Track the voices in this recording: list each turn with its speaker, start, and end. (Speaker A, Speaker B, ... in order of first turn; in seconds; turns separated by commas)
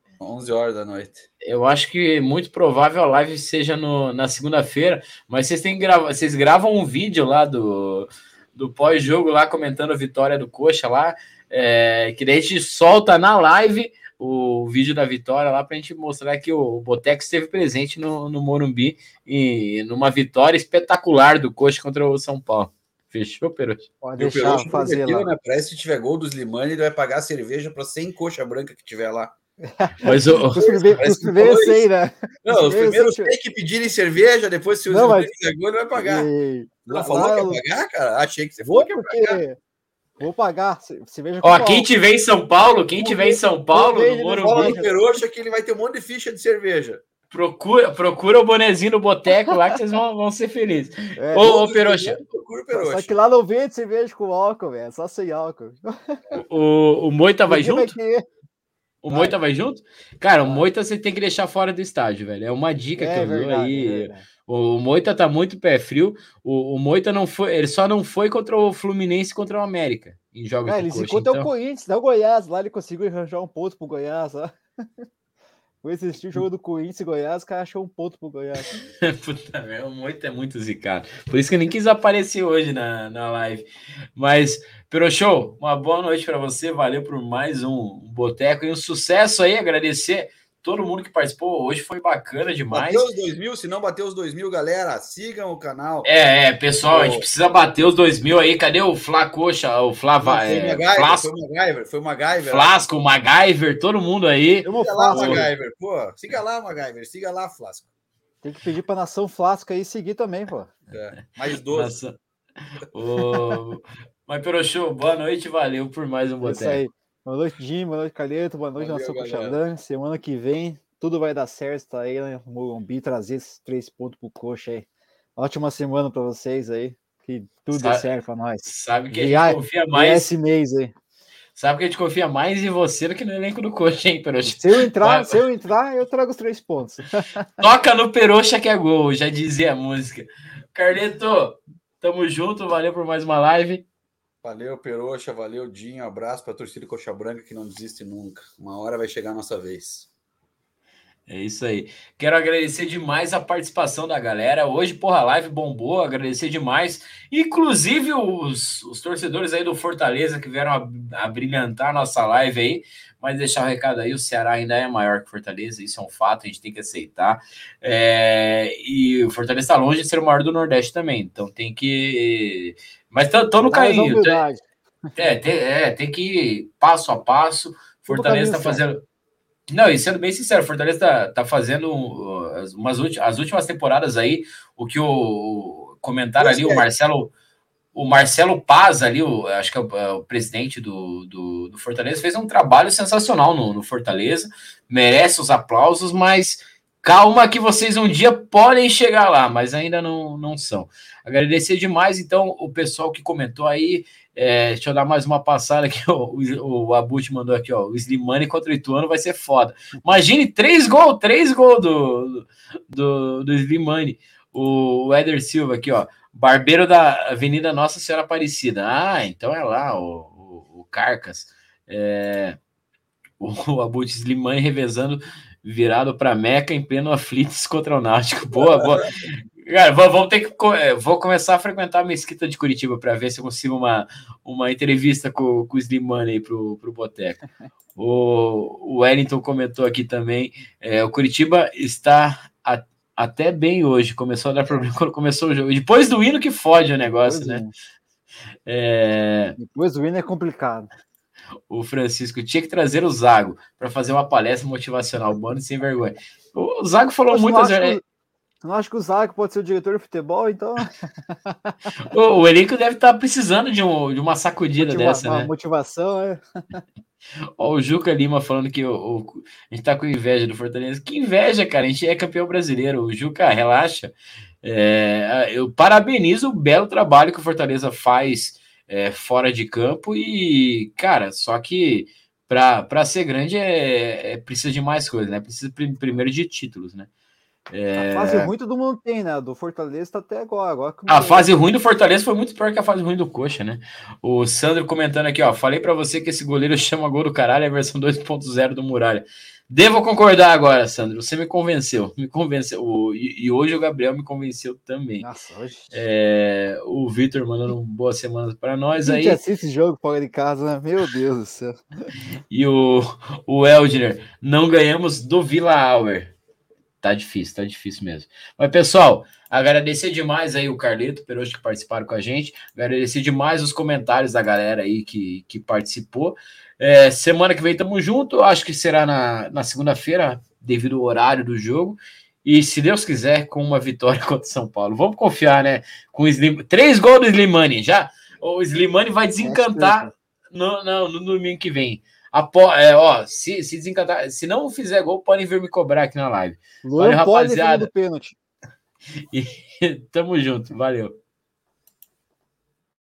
Speaker A: 0.2-1.3, Speaker B: 1.4-23.9, Speaker C: 24.0-25.3, Speaker A: 24.2-29.3, Speaker C: 29.6-33.3, Speaker B: 30.0-30.7, Speaker A: 30.6-31.9, Speaker A: 32.5-36.3, Speaker C: 34.9-35.3, Speaker C: 36.0-37.6, Speaker A: 36.9-39.4, Speaker C: 38.6-39.6, Speaker C: 40.2-41.9, Speaker B: 41.4-44.8, Speaker C: 43.0-44.9, Speaker A: 44.4-47.0, Speaker B: 47.3-52.2, Speaker C: 51.2-51.5, Speaker A: 51.4-53.1, Speaker C: 52.7-56.3, Speaker B: 56.3-57.9, Speaker C: 57.5-58.2, Speaker B: 59.0-71.5, Speaker C: 63.0-64.2, Speaker C: 70.7-74.5, Speaker C: 75.8-78.8, Speaker B: 79.0-93.0, Speaker A: 92.7-96.1, Speaker B: 96.0-101.3, Speaker A: 96.9-97.2, Speaker A: 100.2-102.8, Speaker B: 102.5-105.5, Speaker C: 104.6-105.5, Speaker A: 104.8-107.9, Speaker C: 108.4-110.7, Speaker A: 110.9-112.0, Speaker B: 111.7-112.2, Speaker B: 112.7-116.8, Speaker C: 113.3-113.6, Speaker C: 116.4-124.9, Speaker A: 118.8-119.6, Speaker C: 125.4-130.9, Speaker B: 127.7-128.1, Speaker B: 128.6-130.3, Speaker B: 131.6-135.4, Speaker C: 134.4-137.5, Speaker B: 137.6-143.8, Speaker A: 144.4-150.1, Speaker B: 151.3-174.4, Speaker C: 173.6-174.6, Speaker B: 175.2-179.0, Speaker C: 178.1-178.8, Speaker B: 179.7-187.3, Speaker A: 186.4-186.9, Speaker B: 187.9-222.6, Speaker B: 223.4-237.4, Speaker B: 238.0-247.6, Speaker C: 247.3-247.7, Speaker B: 248.7-249.6, Speaker C: 249.6-250.9, Speaker B: 251.7-258.0, Speaker C: 257.3-258.0, Speaker C: 258.6-261.9, Speaker B: 262.1-265.5, Speaker C: 264.8-266.8, Speaker B: 267.6-287.1, Speaker B: 287.7-288.5, Speaker C: 288.0-291.5, Speaker B: 291.1-305.3, Speaker C: 305.2-306.0, Speaker B: 305.9-309.4, Speaker C: 309.0-312.0, Speaker B: 312.5-316.3, Speaker B: 317.0-347.9, Speaker C: 339.4-340.1, Speaker C: 346.8-348.4, Speaker B: 349.3-351.2